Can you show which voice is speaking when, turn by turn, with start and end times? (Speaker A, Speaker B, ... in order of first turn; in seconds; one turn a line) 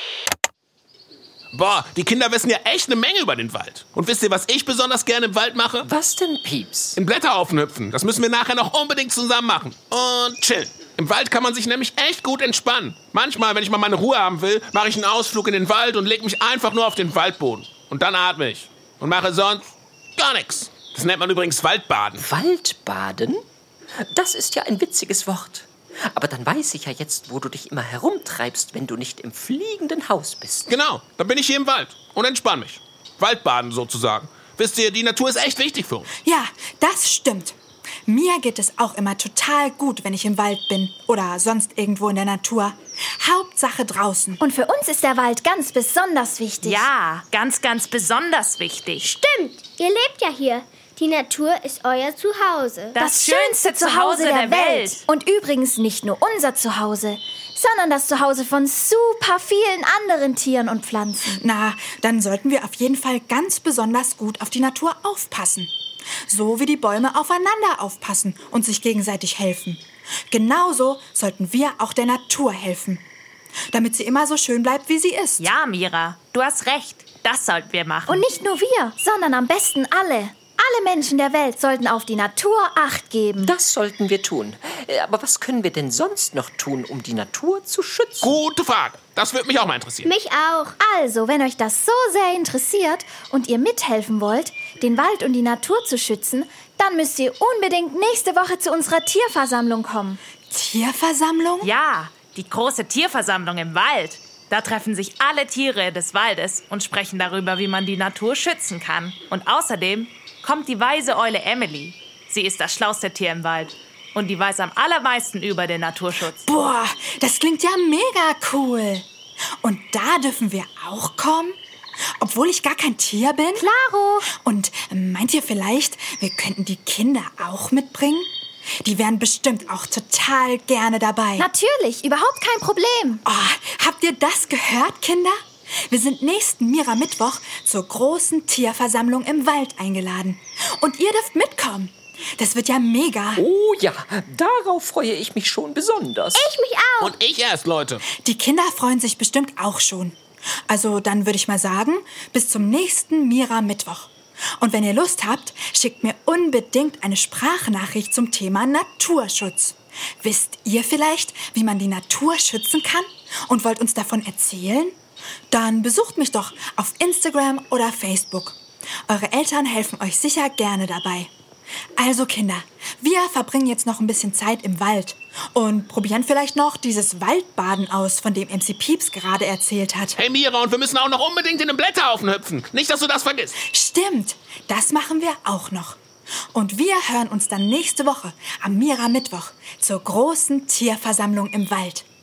Speaker A: 1.5-5.9
Speaker B: 5.8-7.0
Speaker A: 7.0-22.2
Speaker B: 22.2-23.4
Speaker B: 24.0-30.8
Speaker A: 30.7-36.1
Speaker C: 36.2-37.6
Speaker C: 38.1-44.4
Speaker D: 44.4-46.9
Speaker E: 46.6-49.1
Speaker F: 49.0-53.0
Speaker E: 52.9-55.0
Speaker D: 53.0-61.4
Speaker C: 61.3-65.7
Speaker C: 66.3-73.0
Speaker C: 73.7-75.5
Speaker E: 75.4-78.2
Speaker D: 78.1-83.5
Speaker B: 83.4-88.3
Speaker A: 88.2-90.1
Speaker F: 90.0-90.8
Speaker D: 90.8-100.2
Speaker C: 100.5-101.7
Speaker E: 101.6-116.5
Speaker C: 116.5-119.0
Speaker C: 119.6-121.6
Speaker C: 122.2-123.7
Speaker D: 123.5-124.3
Speaker C: 124.4-128.3
Speaker C: 128.8-131.5
Speaker D: 131.4-133.2
Speaker C: 133.3-135.4
Speaker C: 135.9-143.4
Speaker B: 143.4-146.5
Speaker F: 146.3-147.2
Speaker A: 147.0-148.0
Speaker C: 148.2-150.2
Speaker C: 150.7-165.0
Speaker C: 165.5-168.6
Speaker C: 169.1-171.3
Speaker C: 172.0-180.2
Speaker A: 180.2-183.6
Speaker C: 183.6-186.0
Speaker C: 186.5-192.1